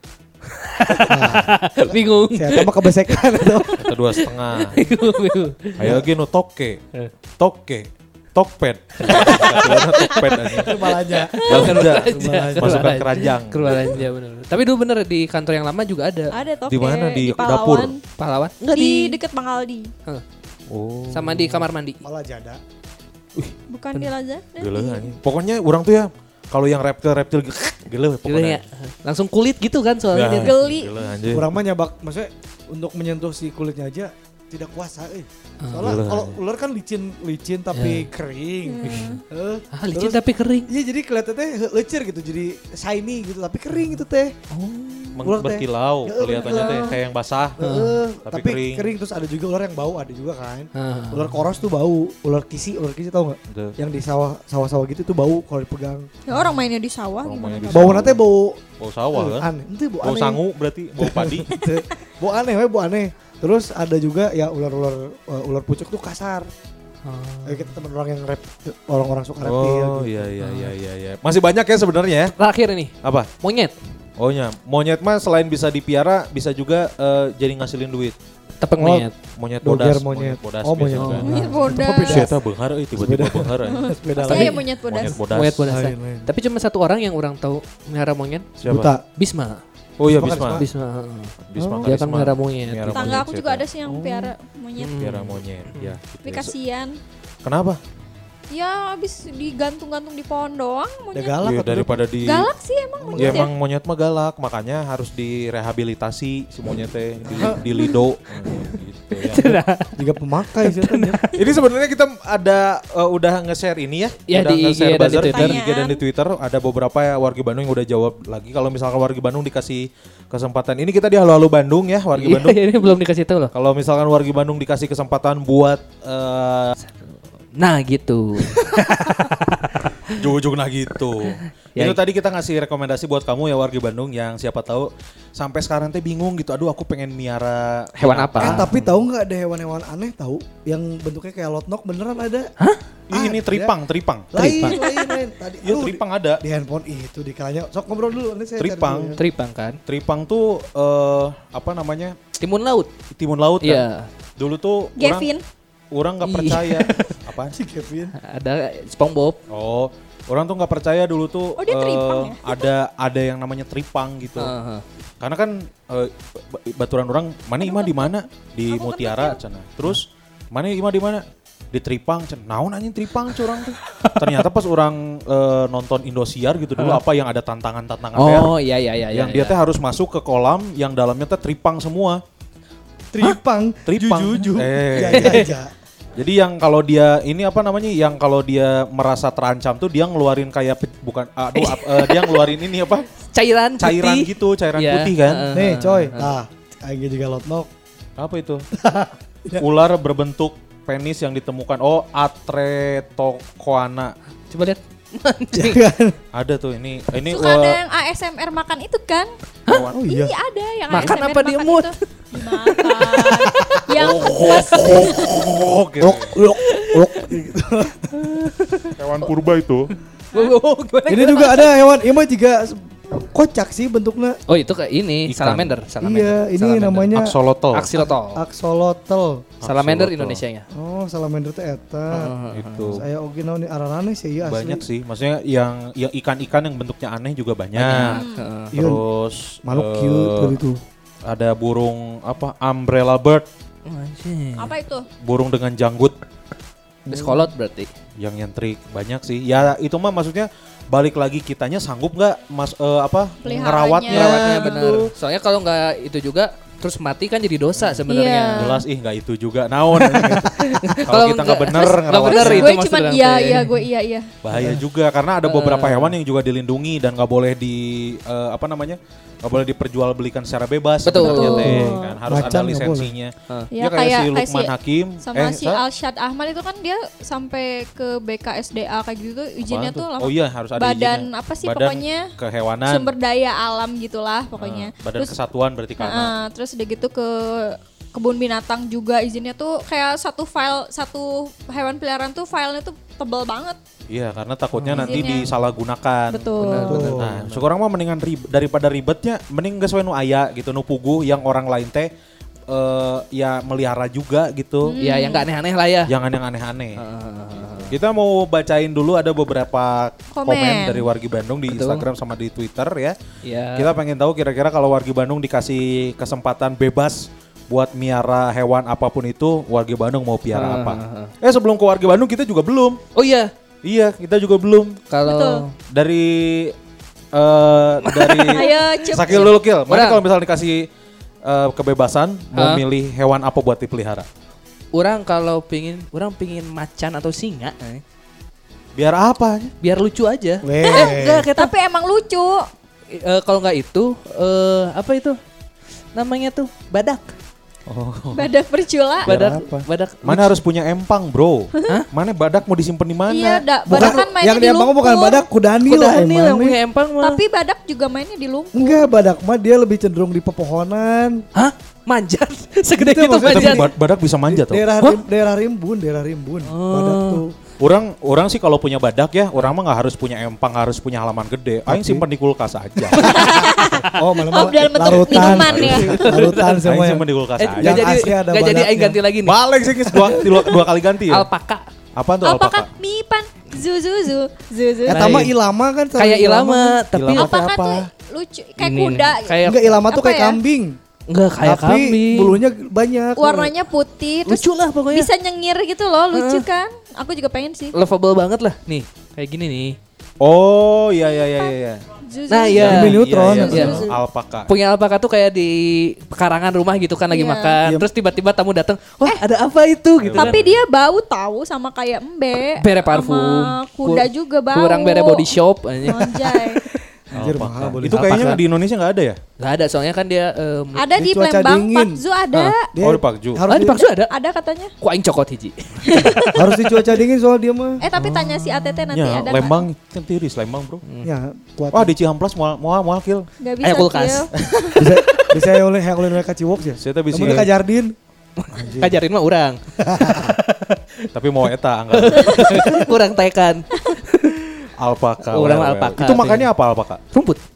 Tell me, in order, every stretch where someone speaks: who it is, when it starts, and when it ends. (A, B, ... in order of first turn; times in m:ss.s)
0:00.5-0:06.0 A
0:01.0-0:03.8 B
0:03.8-0:04.8 C
0:05.8-0:06.8 C
0:07.4-0:10.8 C
0:09.0-0:16.3 A
0:10.6-0:13.0 B
0:11.5-0:14.0 C
0:16.3-0:18.0 D
0:16.7-0:17.9 C
0:18.2-0:19.2 A
0:18.7-0:19.9 D
0:20.7-0:21.7 C
0:21.1-0:22.0 A
0:22.0-0:22.6 B
0:23.7-0:25.1 D
0:24.6-0:28.6 C
0:28.2-0:30.6 A
0:30.1-0:31.5 C
0:30.4-0:31.2 D
0:31.3-0:44.3 B
0:35.6-0:35.9 A
0:35.8-0:36.3 C
0:37.7-0:38.1 A
0:38.6-0:39.2 D
0:38.8-0:39.2 C
0:39.7-0:40.7 A
0:44.5-0:45.2 A
0:45.2-0:47.6 C
0:45.2-0:47.0 B
0:46.4-0:47.0 D
0:47.6-0:56.1 B
0:47.6-0:47.9 A
0:48.2-0:48.9 C
0:50.7-0:51.3 A
0:53.5-0:53.8 C
0:56.3-0:58.0 D
0:56.3-0:56.6 A
0:57.2-0:58.2 C
0:57.7-0:58.6 B
0:58.8-0:59.4 C
0:59.1-1:00.4 B
1:00.0-1:01.5 C
1:01.0-1:06.5 B
1:07.0-1:07.7 A
1:07.4-1:10.1 B
1:09.4-1:12.3 C
1:10.4-1:10.7 A
1:12.3-1:13.7 A
1:13.0-1:13.3 C
1:14.2-1:18.2 C
1:18.6-1:19.1 A
1:18.8-1:21.3 C
1:19.6-1:22.3 B
1:21.0-1:21.5 A
1:21.3-1:22.3 D
1:22.0-1:25.6 C
1:23.0-1:24.6 B
1:23.7-1:25.2 D
1:24.2-1:24.6 A
1:25.3-1:28.5 A
1:25.7-1:26.3 B
1:28.6-1:29.0 B
1:28.6-1:28.9 C
1:29.2-1:29.6 A
1:30.0-1:30.6 C
1:30.1-1:30.6 B
1:30.5-1:33.2 A
1:31.5-1:34.0 C
1:31.6-1:31.9 B
1:32.9-1:35.0 D
1:33.9-1:34.3 B
1:34.8-1:35.9 A
1:35.0-1:36.5 C
1:36.2-1:37.0 D
1:37.4-1:37.8 C
1:38.5-1:41.4 D
1:41.1-1:42.0 B
1:41.4-1:42.5 C
1:42.2-1:43.5 D
1:43.0-1:43.5 B
1:43.1-1:49.5 C
1:47.2-1:47.7 B
1:48.5-1:49.9 A
1:50.0-1:51.2 B
1:50.6-1:51.5 A
1:51.3-2:02.6 C
1:54.3-1:55.6 A
1:55.2-1:56.0 D
2:02.2-2:03.5 A
2:03.5-2:06.7 C
2:06.8-2:10.2 A
2:10.1-2:18.9 C
2:18.0-2:18.6 A
2:18.4-2:22.5 B
2:23.1-2:24.4 C
2:23.1-2:23.7 B
2:24.3-2:29.2 B
2:24.4-2:24.8 A
2:24.8-2:25.1 D
2:25.6-2:26.4 C
2:28.6-2:29.2 C
2:29.2-2:29.8 A
2:29.8-2:32.1 C
2:32.4-2:32.9 A
2:33.1-2:33.8 C
2:33.6-2:34.1 A
2:34.4-2:35.3 C
2:35.0-2:35.4 D
2:35.9-2:37.5 C
2:36.2-2:37.1 A
2:37.5-2:38.1 B
2:38.2-2:39.4 A
2:39.5-2:44.5 C
2:41.6-2:42.7 D
2:44.4-2:44.8 A
2:45.2-2:58.5 C
2:47.6-2:48.1 D
2:48.7-2:49.4 D
2:53.3-2:54.4 A
2:58.2-2:59.6 A
2:59.1-3:02.2 C
3:03.1-3:05.7 B
3:03.8-3:05.4 C
3:05.1-3:05.5 A
3:06.2-3:13.1 C
3:11.5-3:12.5 A
3:13.2-3:16.4 A
3:13.8-3:15.5 C
3:15.5-3:17.7 B
3:18.2-3:18.6 C
3:18.7-3:19.6 B
3:19.6-3:24.1 C
3:24.5-3:25.8 A
3:25.5-3:26.2 B
3:26.3-3:27.8 C
3:27.3-3:29.3 D
3:29.7-3:30.0 C
3:29.9-3:30.3 B
3:30.0-3:35.3 D
3:30.9-3:33.8 A
3:33.9-3:36.3 C
3:34.5-3:35.2 A
3:34.7-3:35.3 B
3:36.0-3:38.4 B
3:36.6-3:37.3 A
3:38.2-3:39.3 A
3:39.0-3:39.9 C
3:40.3-3:41.7 A
3:41.1-3:44.4 B
3:44.5-3:47.1 A
3:45.3-3:45.7 C
3:46.0-3:47.3 B
3:47.1-3:47.9 C
3:47.7-3:48.4 A
3:48.3-3:49.4 B
3:49.6-3:50.4 C
3:49.6-3:50.6 A
3:50.7-3:52.3 B
3:52.1-3:53.0 A
3:52.5-3:53.0 C
3:52.9-3:54.8 B
3:54.4-3:58.2 C
3:57.7-3:58.7 A
3:58.0-3:58.4 D
3:58.7-3:59.0 B
3:58.7-4:00.6 C
3:59.6-4:00.8 B
4:01.2-4:03.4 C
4:03.8-4:04.7 A
4:04.6-4:05.1 D
4:05.2-4:06.1 C
4:07.1-4:07.9 A
4:07.1-4:07.5 B
4:08.2-4:15.1 C
4:13.4-4:14.3 D
4:14.1-4:18.6 A
4:17.8-4:18.0 C
4:18.1-4:18.8 D
4:18.5-4:22.7 C
4:20.0-4:23.8 A
4:21.8-4:24.3 D
4:24.4-4:35.8 C
4:25.4-4:26.2 A
4:31.0-4:31.8 A
4:31.2-4:32.2 D
4:31.7-4:33.1 B
4:33.7-4:34.7 D
4:35.2-4:42.3 D
4:39.6-4:43.1 C
4:42.9-4:45.3 D
4:44.6-4:46.3 C
4:46.0-4:53.8 D
4:54.1-5:02.1 C
4:54.8-4:55.3 A
4:55.0-4:55.5 D
4:56.3-4:56.9 D
4:56.6-4:57.6 A
4:56.9-4:57.4 B
5:02.7-5:05.0 C
5:04.8-5:05.5 D
5:05.0-5:06.1 A
5:06.1-5:07.0 C
5:07.0-5:07.9 A
5:07.9-5:13.2 C
5:10.4-5:11.0 D
5:11.7-5:12.0 A
5:13.4-5:13.9 A
5:13.8-5:23.0 C
5:20.5-5:21.3 A
5:23.1-5:23.5 A
5:23.8-5:25.0 C
5:25.1-5:25.7 A
5:25.2-5:25.6 D
5:25.9-5:26.7 C
5:27.3-5:30.9 C
5:28.0-5:30.2 A
5:28.5-5:29.5 D
5:31.4-5:34.2 C
5:32.5-5:32.8 A
5:34.9-5:38.0 A
5:38.9-5:39.7 C
5:39.8-5:41.7 A
5:40.6-5:41.5 B
5:40.9-5:42.6 D
5:43.1-5:45.4 A
5:46.1-5:47.3 A
5:47.9-5:48.5 C
5:48.3-5:49.3 D
5:49.2-5:50.5 A
5:49.3-5:53.6 C
5:53.3-5:55.4 D
5:53.8-5:56.8 B
5:53.9-5:54.2 A
5:55.8-5:57.4 A
5:57.2-5:59.0 D
5:58.7-6:01.4 B
6:01.5-6:03.9 A
6:03.0-6:03.9 B
6:03.4-6:04.8 C
6:04.5-6:07.5 B
6:06.7-6:07.4 A
6:07.8-6:13.4 C
6:11.9-6:12.2 B
6:13.1-6:14.1 A
6:13.2-6:16.1 D
6:14.1-6:17.2 B
6:15.3-6:16.3 C
6:15.8-6:16.8 A
6:16.8-6:18.3 C
6:17.6-6:19.6 A
6:17.8-6:19.2 B
6:19.4-6:21.5 C
6:20.2-6:20.4 B
6:21.3-6:21.8 A
6:22.2-6:22.9 C
6:22.4-6:25.4 D
6:25.1-6:25.5 A
6:25.1-6:27.0 B
6:26.2-6:27.5 A
6:27.1-6:28.1 C
6:27.3-6:29.6 D
6:28.8-6:29.9 A
6:29.6-6:31.0 B
6:30.1-6:30.6 D
6:31.3-6:32.6 A
6:31.6-6:33.7 B
6:33.4-6:37.9 D
6:34.5-6:35.3 A
6:36.3-6:36.6 A
6:37.9-6:40.0 A
6:40.4-6:42.0 C
6:42.2-6:44.1 D
6:42.5-6:43.1 A
6:42.7-6:44.7 C
6:42.8-6:44.0 B
6:43.7-6:44.1 A
6:44.7-6:50.6 A
6:47.3-6:47.8 D
6:50.2-6:50.8 C
6:50.4-6:56.8 D
6:52.8-6:57.0 A
6:57.3-6:58.5 B
6:57.3-6:59.4 C
6:58.0-6:58.6 A
6:59.6-7:01.0 A
7:01.0-7:02.9 D
7:01.1-7:02.2 B
7:02.9-7:04.0 B
7:03.0-7:03.6 C
7:03.7-7:04.3 A
7:04.3-7:04.9 D
7:05.0-7:07.0 A
7:06.1-7:06.5 D
7:06.5-7:08.0 B
7:08.0-7:09.8 D
7:08.2-7:09.0 A
7:09.1-7:11.0 C
7:11.2-7:12.1 B
7:11.9-7:13.5 C
7:13.6-7:15.0 D
7:13.8-7:15.5 A
7:15.0-7:18.1 B
7:17.0-7:17.7 C
7:18.6-7:21.0 A
7:18.8-7:19.0 C
7:18.8-7:19.1 B
7:20.0-7:20.6 B
7:21.3-7:23.0 C
7:22.1-7:24.6 A
7:25.0-7:27.2 C
7:25.4-7:26.7 A
7:27.3-7:27.6 A